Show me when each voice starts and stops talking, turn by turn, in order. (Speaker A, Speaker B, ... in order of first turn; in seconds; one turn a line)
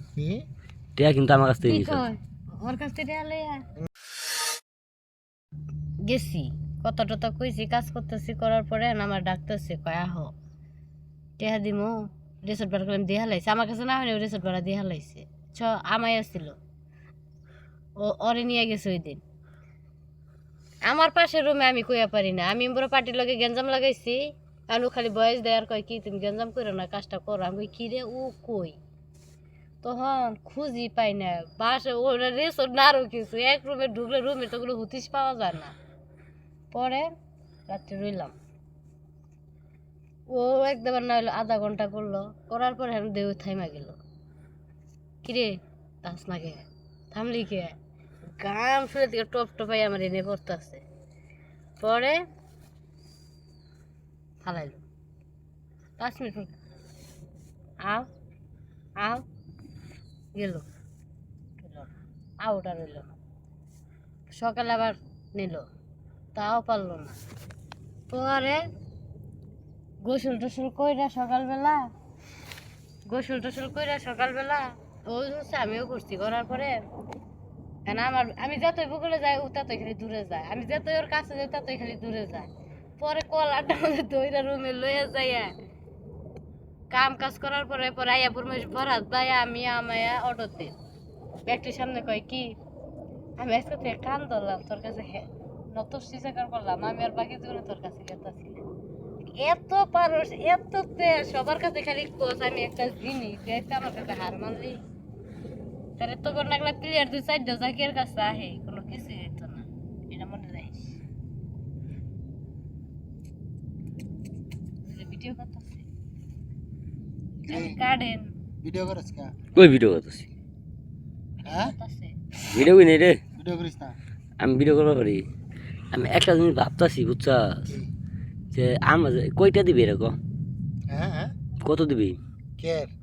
Speaker A: 0.2-0.5
Speaker B: 1.0-2.0
Speaker C: 1.6-3.6
Speaker C: 6.1-10.3
Speaker C: 11.4-16.6
Speaker C: 18.0-19.2
Speaker C: 20.9-28.8
Speaker C: 29.8-35.8
Speaker C: 36.7-37.1
Speaker C: 37.7-38.4
Speaker C: 40.3-44.0
Speaker C: 45.2-45.5
Speaker C: 46.0-47.7
Speaker C: 48.4-50.8
Speaker C: 51.8-52.2
Speaker C: 54.4-54.8
Speaker C: 56.0-56.5
Speaker C: 60.4-60.6
Speaker C: 61.6-63.2
Speaker C: 64.3-65.7
Speaker C: 66.3-67.2
Speaker C: 68.1-68.6
Speaker C: 70.0-71.8
Speaker C: 73.1-76.8
Speaker C: 77.9-82.5
Speaker C: 83.0-85.5
Speaker C: 86.9-90.8
Speaker C: 91.5-92.6
Speaker C: 93.4-98.6
Speaker C: 99.4-104.8
Speaker C: 106.0-111.0
Speaker C: 114.8-115.9
Speaker A: 117.4-117.8
Speaker C: 117.5-118.3
Speaker A: 118.6-119.4
Speaker B: 119.5-120.3
Speaker C: 121.4-122.2
Speaker A: 121.5-121.8
Speaker B: 122.4-123.2
Speaker A: 123.3-124.0
Speaker B: 124.4-125.2
Speaker B: 125.9-127.8
Speaker B: 128.5-130.2
Speaker A: 130.9-131.3
Speaker B: 131.6-132.2
Speaker A: 132.6-132.9